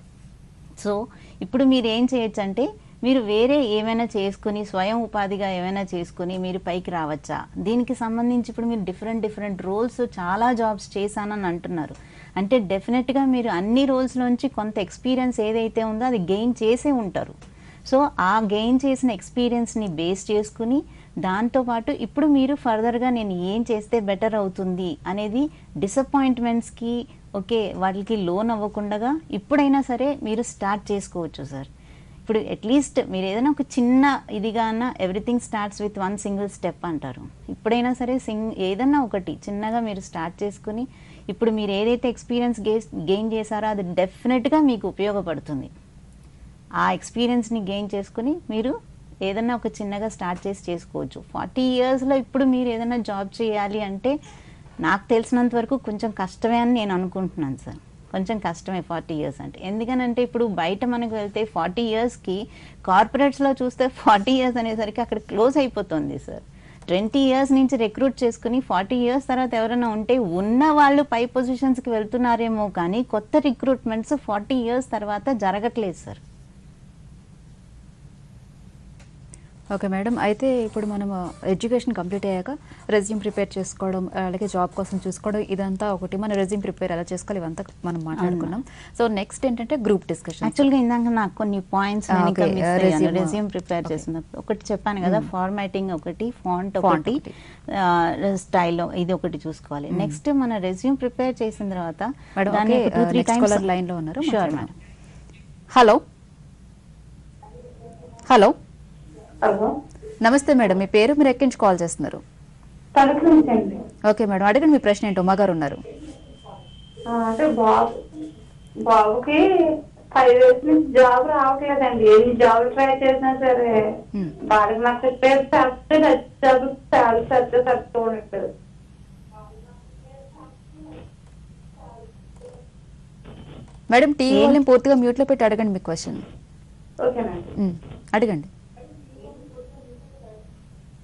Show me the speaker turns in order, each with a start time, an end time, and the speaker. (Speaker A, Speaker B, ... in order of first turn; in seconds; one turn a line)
Speaker A: 0.8-17.4
Speaker A: 17.9-31.7
Speaker A: 32.2-45.7
Speaker A: 46.8-48.7
Speaker A: 49.2-54.1
Speaker A: 54.8-76.2
Speaker B: 79.7-90.7
Speaker A: 88.2-88.5
Speaker A: 90.4-103.7
Speaker B: 92.1-94.0
Speaker B: 96.8-97.3
Speaker B: 99.9-100.2
Speaker B: 102.4-104.7
Speaker A: 104.2-104.7
Speaker B: 105.7-106.0
Speaker B: 108.3-108.5
Speaker C: 109.4-109.7
Speaker B: 110.2-112.2
Speaker C: 112.9-113.8
Speaker B: 114.0-115.8
Speaker C: 117.1-118.0
Speaker C: 118.8-119.4
Speaker C: 120.1-123.9
Speaker C: 124.4-128.5
Speaker B: 133.9-136.2
Speaker A: 134.3-134.6
Speaker C: 137.0-137.4
Speaker B: 137.6-138.5